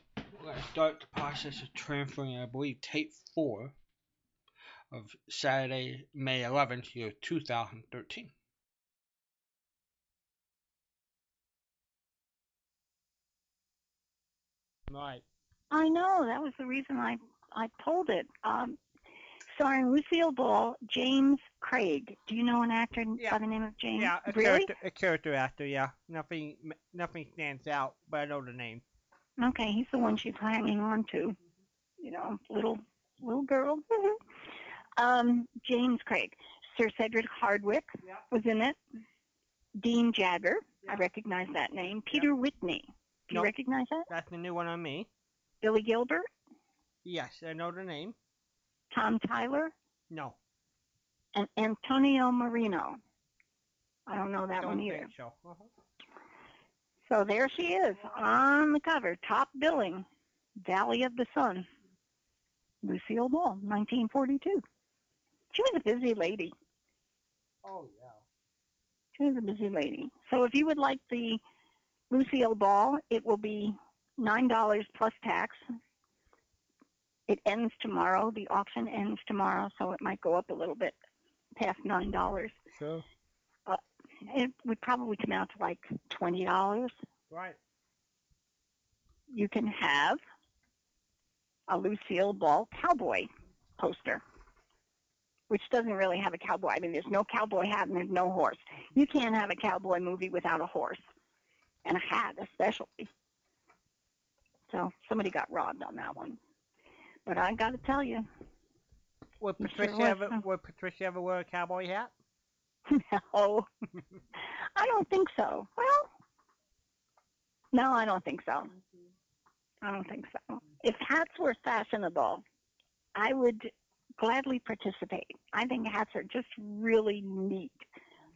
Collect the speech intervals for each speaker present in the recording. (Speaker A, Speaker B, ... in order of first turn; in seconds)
Speaker A: 0.3-3.7, 4.9-8.3, 14.9-15.2, 23.9-28.8, 44.1-45.1, 47.0-48.1, 50.1-50.4, 54.6-55.7, 67.6-68.2, 82.7-83.0, 87.3-87.6, 109.4-112.1
Speaker B: 15.7-18.8, 19.5-24.7, 29.4-31.4, 32.0-34.2, 35.0-38.8, 39.8-44.1, 45.6-46.3, 48.9-49.7, 51.3-53.0, 54.1-55.1, 57.1-60.0, 60.6-61.7, 62.8-64.6, 65.5-66.5, 69.2-71.4, 72.1-75.6, 77.3-80.9, 81.5-82.5, 83.7-86.9, 89.3-90.2, 91.7-94.2, 95.5-101.0, 101.8-103.1, 104.7-106.4, 107.2-108.3, 109.6-110.4, 112.9-113.7, 114.4-116.1, 117.7-118.7, 119.8-122.4, 123.1-127.8